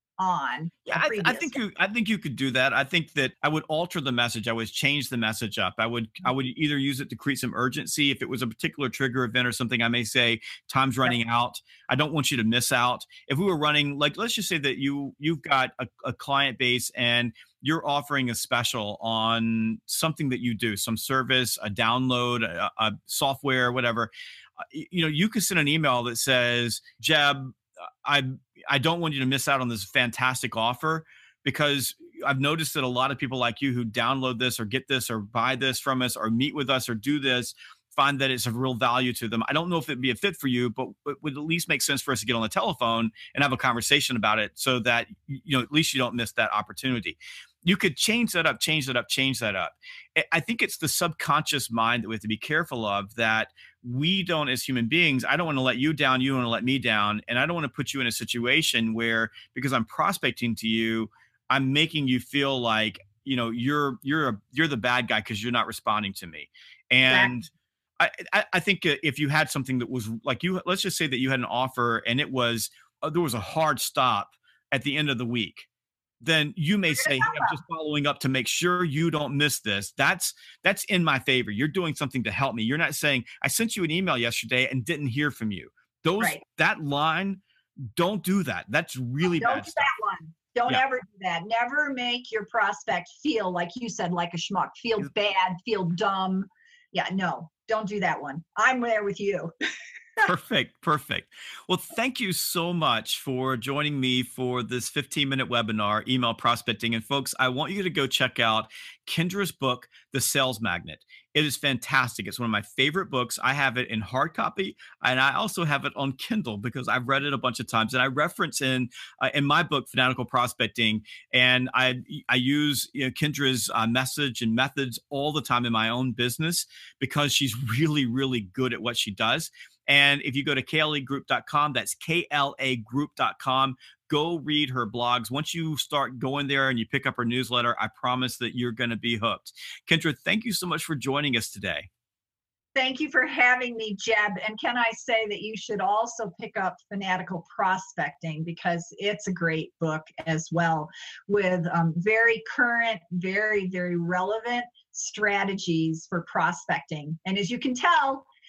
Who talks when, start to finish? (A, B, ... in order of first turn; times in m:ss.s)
0:00.2-0:01.6 A
0:00.9-0:24.1 B
0:24.7-1:15.7 B
1:16.2-1:27.4 B
1:16.9-1:17.6 A
1:28.0-1:29.9 B
1:29.4-1:39.5 A
1:40.2-2:21.9 B
2:22.8-2:38.3 A